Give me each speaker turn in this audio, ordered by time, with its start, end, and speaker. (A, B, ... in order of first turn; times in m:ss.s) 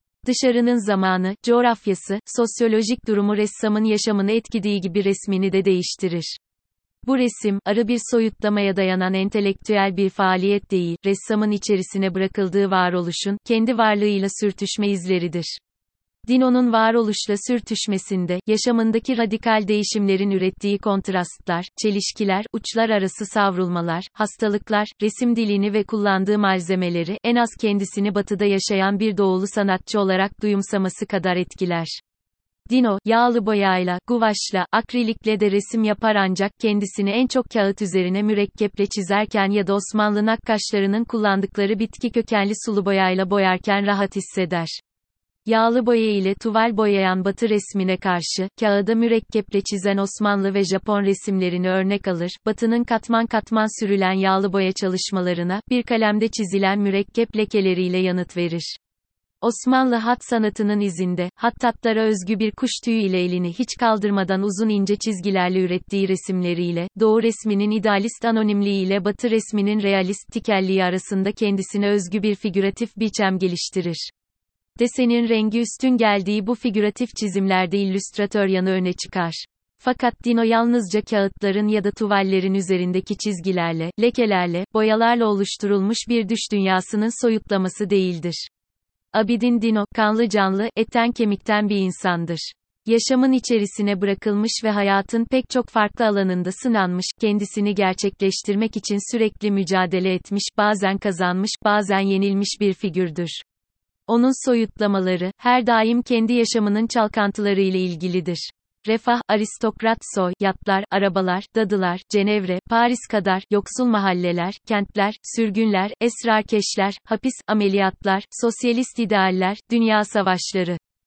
0:00.2-0:06.4 A
0:07.0-0:15.6 A
0:16.2-0:32.0 A
0:32.7-0:44.8 A
0:45.4-0:58.8 A
0:59.4-1:14.1 A
1:14.8-1:28.5 A
1:29.1-1:43.4 A
1:44.1-2:00.8 A